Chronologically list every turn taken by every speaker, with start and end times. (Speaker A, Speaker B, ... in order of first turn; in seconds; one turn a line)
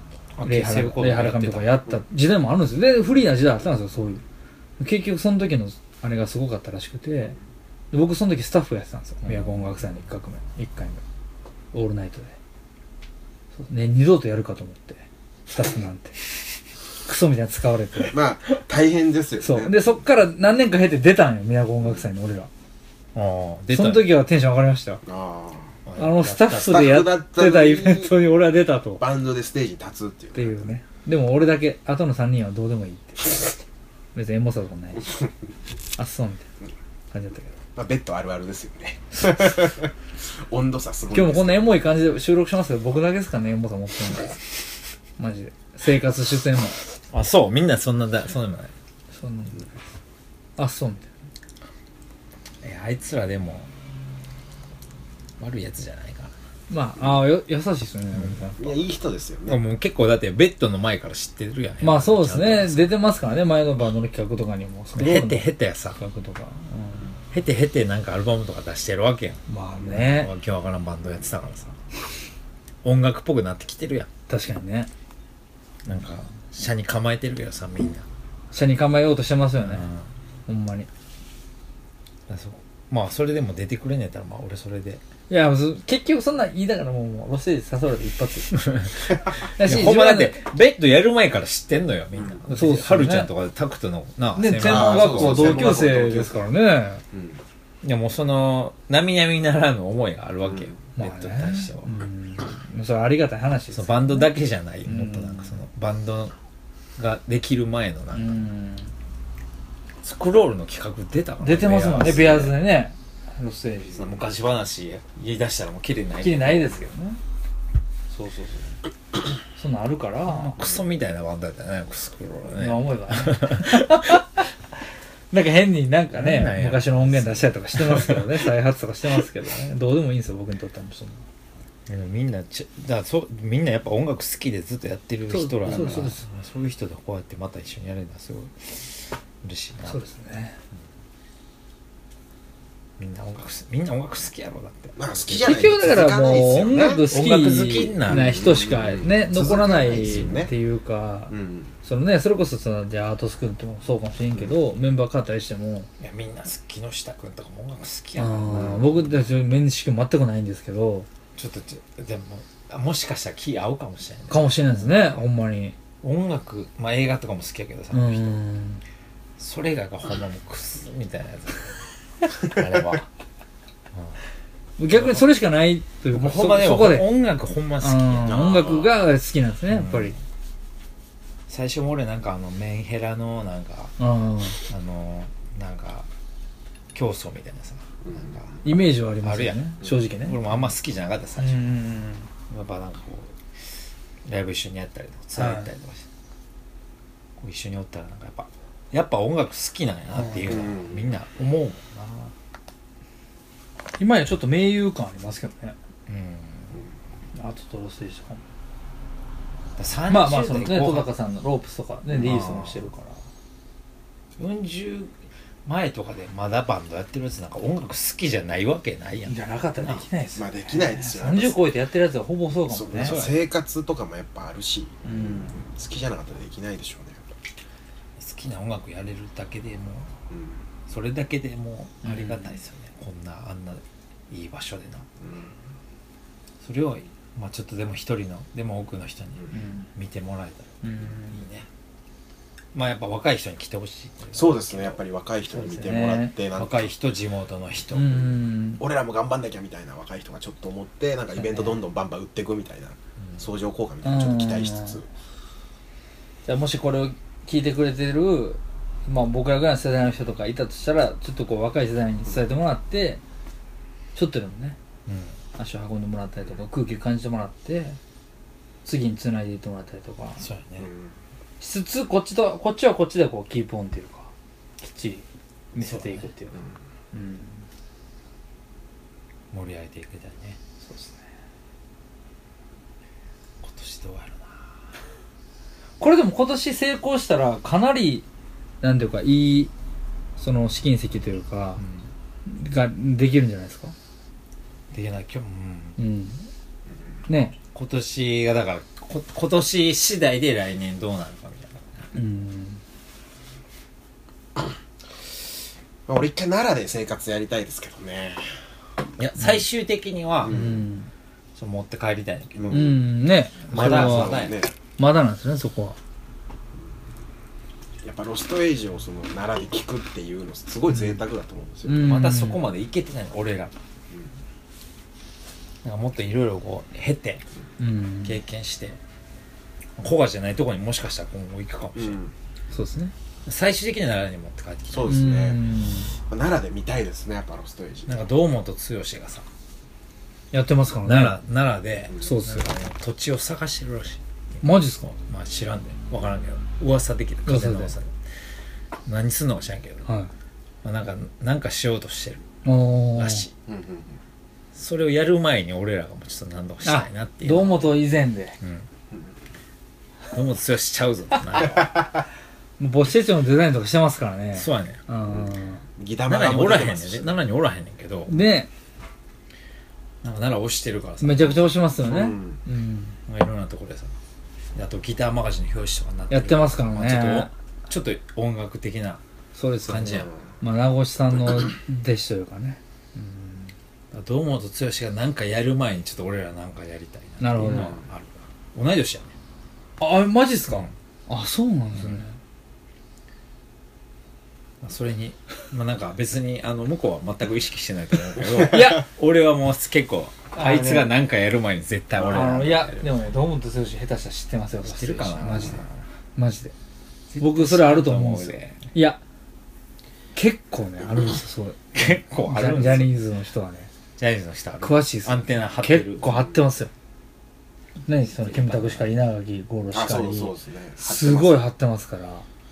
Speaker A: 0.4-1.9
Speaker B: 0.4-4.2
Speaker B: 4.8-7.4
Speaker B: 7.9-11.0
Speaker A: 9.2-9.6
Speaker B: 11.7-12.4
Speaker B: 13.6-16.3
Speaker B: 17.0-18.2
Speaker C: 18.1-19.8
Speaker B: 19.4-22.5
Speaker A: 23.1-24.1
Speaker B: 23.7-25.0
Speaker C: 25.1-25.7
Speaker A: 25.9-26.8
Speaker B: 26.0-29.0
Speaker C: 26.6-28.1
Speaker C: 29.0-30.7
Speaker B: 30.3-33.6
Speaker B: 34.1-35.2
Speaker B: 36.0-36.5
Speaker B: 37.1-37.5
Speaker C: 37.8-41.9
Speaker B: 39.1-39.5
Speaker B: 41.1-44.4
Speaker B: 45.2-46.8
Speaker A: 47.1-48.7
Speaker B: 49.1-49.7
Speaker B: 50.6-51.1
Speaker A: 52.6-53.7
Speaker A: 55.4-56.3
Speaker B: 56.7-58.6
Speaker A: 58.1-58.7
Speaker C: 58.6-59.6
Speaker A: 59.5-62.9
Speaker B: 61.8-67.1
Speaker A: 65.0-66.0
Speaker A: 67.3-71.8
Speaker B: 69.5-70.3
Speaker A: 72.8-74.1
Speaker B: 74.3-74.9
Speaker A: 75.8-78.1
Speaker B: 78.5-79.9
Speaker A: 79.6-80.1
Speaker B: 80.5-80.9
Speaker A: 82.3-85.0
Speaker B: 85.3-90.4
Speaker A: 88.5-95.8
Speaker B: 92.5-93.3
Speaker B: 94.4-97.0
Speaker C: 94.6-96.5
Speaker C: 97.1-97.4
Speaker A: 97.8-102.0
Speaker B: 101.0-104.3
Speaker A: 103.7-106.3
Speaker B: 104.8-105.6
Speaker A: 107.0-108.4
Speaker B: 108.1-108.9
Speaker A: 110.0-112.6
Speaker B: 111.4-114.2
Speaker A: 114.0-116.8
Speaker B: 116.2-117.2
Speaker B: 118.1-118.8
Speaker B: 119.5-120.8
Speaker A: 120.3-124.0
Speaker B: 122.4-124.5
Speaker B: 125.3-131.2
Speaker A: 126.1-128.3
Speaker A: 131.9-140.0
Speaker B: 135.3-136.2
Speaker B: 139.8-140.6
Speaker A: 143.0-149.1
Speaker C: 145.0-147.1
Speaker B: 145.4-155.9
Speaker C: 148.1-150.5
Speaker A: 149.7-150.4
Speaker C: 151.3-151.7
Speaker A: 156.0-159.2
Speaker B: 158.2-161.1
Speaker A: 161.4-165.1
Speaker B: 164.3-165.8
Speaker A: 166.0-168.4
Speaker B: 167.9-168.8
Speaker A: 169.4-171.8
Speaker A: 172.3-173.1
Speaker B: 174.8-177.1
Speaker A: 174.9-175.2
Speaker A: 176.1-178.7
Speaker B: 177.8-180.2
Speaker C: 178.3-178.9
Speaker A: 179.7-180.2
Speaker A: 181.5-183.9
Speaker B: 184.0-184.6
Speaker A: 184.6-186.1
Speaker A: 186.9-191.7
Speaker B: 188.6-190.4
Speaker B: 191.4-192.3
Speaker A: 192.5-193.4
Speaker A: 194.2-196.1
Speaker B: 195.4-195.7
Speaker A: 197.4-202.3
Speaker B: 200.2-200.6
Speaker C: 200.5-201.0
Speaker B: 204.0-205.8
Speaker A: 206.1-206.8
Speaker B: 207.3-208.4
Speaker A: 209.8-211.1
Speaker B: 210.1-213.2
Speaker A: 212.1-212.9
Speaker A: 214.4-215.1
Speaker A: 215.7-220.0
Speaker B: 219.3-223.1
Speaker C: 220.3-221.6
Speaker C: 222.7-227.3
Speaker A: 223.0-223.4
Speaker B: 225.0-225.6
Speaker A: 228.2-230.1
Speaker C: 230.3-230.6
Speaker A: 230.9-235.1
Speaker B: 232.0-232.6
Speaker C: 235.2-235.5
Speaker A: 236.6-241.7
Speaker B: 239.5-239.9
Speaker B: 240.8-241.4
Speaker A: 242.7-245.0
Speaker C: 244.3-246.9
Speaker B: 245.5-246.3
Speaker A: 246.5-248.3
Speaker B: 247.9-248.8
Speaker C: 248.8-255.1
Speaker B: 251.3-251.8
Speaker B: 254.0-255.0
Speaker B: 256.4-263.2
Speaker B: 264.1-264.8
Speaker A: 265.1-265.4
Speaker B: 265.6-268.0
Speaker B: 268.9-270.4
Speaker A: 270.4-270.9
Speaker C: 270.8-271.1
Speaker B: 271.6-276.6
Speaker A: 275.8-276.3
Speaker B: 277.1-277.6
Speaker A: 279.5-280.6
Speaker B: 280.8-281.2
Speaker A: 283.6-284.8
Speaker B: 286.0-288.3
Speaker B: 288.8-289.7
Speaker B: 290.4-291.8
Speaker A: 291.8-292.1
Speaker B: 292.4-293.9
Speaker A: 294.9-296.0
Speaker B: 296.0-296.5
Speaker B: 297.3-297.6
Speaker A: 297.7-302.0
Speaker B: 302.1-302.8
Speaker C: 306.1-308.4
Speaker A: 309.2-310.7
Speaker C: 310.4-310.8
Speaker B: 310.5-311.1
Speaker A: 311.6-313.0
Speaker C: 312.6-313.0
Speaker B: 312.7-314.4
Speaker A: 313.7-314.6
Speaker C: 313.7-314.7
Speaker B: 315.0-316.0
Speaker C: 318.0-322.1
Speaker B: 321.9-322.6
Speaker A: 321.9-323.7
Speaker A: 325.8-327.4
Speaker B: 327.8-328.4
Speaker A: 328.2-329.0
Speaker A: 330.0-332.2
Speaker C: 332.0-332.3
Speaker B: 332.7-333.1
Speaker A: 333.5-335.2
Speaker C: 334.9-335.6
Speaker B: 335.1-336.1
Speaker C: 336.3-338.3
Speaker A: 338.1-339.5
Speaker B: 340.5-341.4
Speaker A: 341.1-344.2
Speaker B: 342.2-342.8
Speaker B: 344.6-345.1
Speaker A: 345.1-348.1
Speaker B: 347.5-347.9
Speaker A: 349.1-350.1
Speaker B: 350.1-350.3
Speaker A: 350.8-352.5
Speaker B: 352.6-353.5
Speaker A: 353.1-353.5
Speaker C: 353.7-354.2
Speaker A: 354.7-357.9
Speaker B: 356.8-358.6
Speaker A: 358.6-358.9
Speaker A: 360.3-362.0
Speaker B: 362.8-365.8
Speaker A: 364.6-365.0
Speaker C: 366.0-367.4
Speaker A: 366.3-368.3
Speaker B: 368.3-368.7
Speaker A: 370.2-371.7
Speaker B: 371.2-373.2
Speaker C: 372.0-372.6
Speaker A: 373.3-374.1
Speaker A: 374.8-379.2
Speaker B: 376.3-377.5
Speaker B: 379.6-383.7
Speaker A: 379.9-380.3
Speaker A: 384.1-389.3
Speaker B: 387.4-388.0
Speaker B: 390.0-392.4
Speaker A: 394.8-403.1
Speaker B: 398.6-399.1
Speaker B: 400.5-401.1
Speaker C: 402.2-402.6
Speaker B: 402.3-405.8
Speaker A: 404.8-406.0
Speaker B: 406.4-406.7
Speaker A: 407.3-408.9
Speaker B: 407.4-409.2
Speaker B: 410.4-413.9
Speaker A: 411.9-413.1
Speaker A: 414.2-416.4
Speaker B: 414.8-416.9
Speaker B: 418.1-422.4
Speaker A: 418.3-419.1
Speaker C: 419.9-421.6